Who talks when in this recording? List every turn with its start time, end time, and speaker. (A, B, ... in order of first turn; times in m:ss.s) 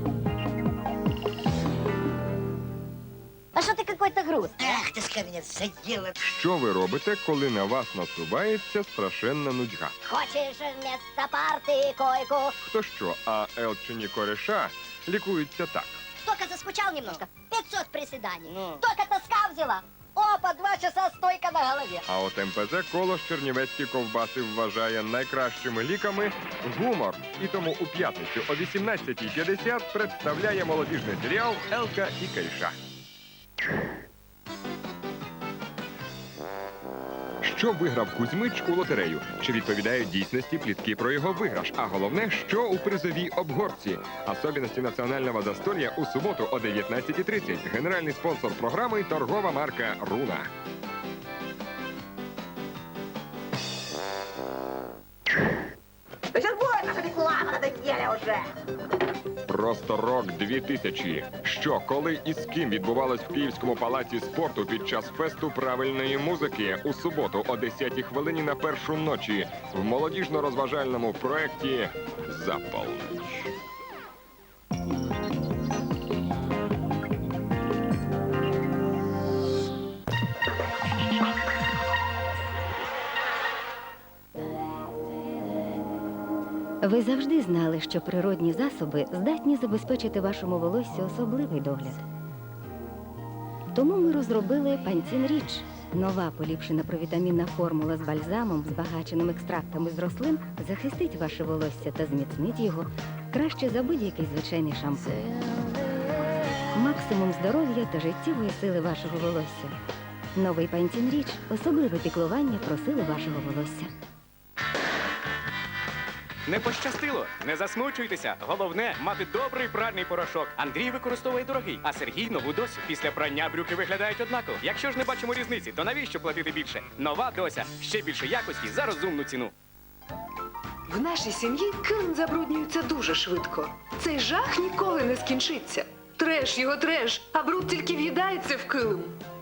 0:03.6-0:06.1 A
0:06.2-0:09.9 B
0:10.1-0:12.5 A
0:12.6-0:16.0 B
0:16.3-0:22.0 A
0:22.1-0:32.7 B
0:37.4-0:50.5 B
0:56.4-0:58.3 C
0:59.5-1:13.5 B
1:26.8-1:32.0 D
1:33.7-1:45.2 D
1:46.8-1:49.8 D
1:50.4-1:53.9 D
1:56.5-2:09.5 E
2:10.9-2:19.1 C